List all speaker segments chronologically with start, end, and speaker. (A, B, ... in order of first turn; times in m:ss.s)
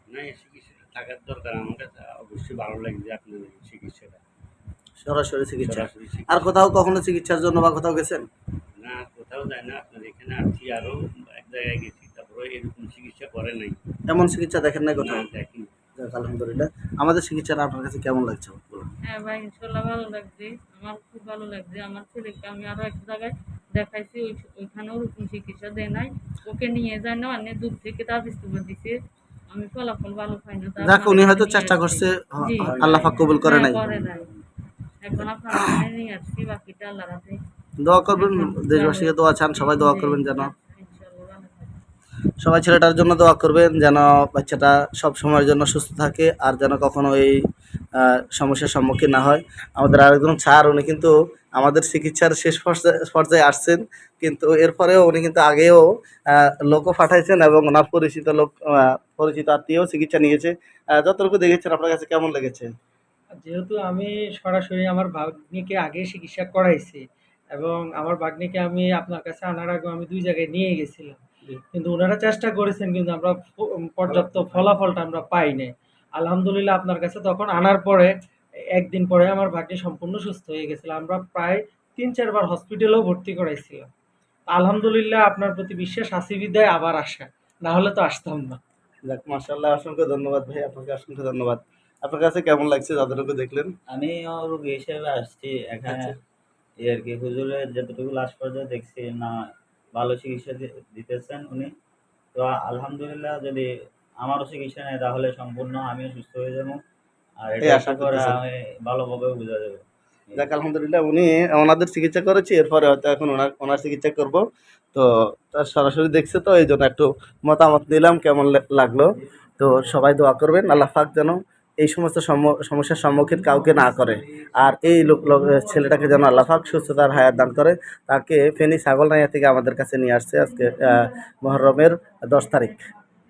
0:00.1-0:04.2 A
0:00.1-0:03.8 B
0:05.0-0:08.2 C
0:05.7-0:06.2 A
0:08.8-0:13.8 A
0:08.8-0:10.9 B
0:11.4-0:11.8 B
0:12.8-0:13.4 B
0:14.1-0:15.3 C
0:15.0-0:15.7 A
0:15.3-0:15.6 B
0:16.0-0:18.9 C
0:19.0-0:29.0 D
0:29.5-0:34.3 D
0:30.8-0:33.9 C
0:32.8-0:33.1 B
0:35.0-0:37.4 D
0:35.5-0:35.8 C
0:37.8-0:40.5 C
0:38.1-0:41.8 D
0:42.4-0:47.4 C
0:48.0-1:02.7 C
1:03.4-1:07.0 E
1:07.5-1:18.1 E
1:18.7-1:23.9 E
1:24.5-1:28.6 E
1:29.1-1:33.7 C
1:33.9-1:36.2 B
1:36.8-1:39.3 B
1:39.9-1:41.7 B
1:42.3-1:43.6 B
1:44.2-1:46.8 B
1:47.4-1:49.8 B
1:47.6-1:48.4 C
1:50.4-1:54.4 C
1:54.9-2:12.8 C
2:03.6-2:04.0 E
2:04.6-2:06.9 E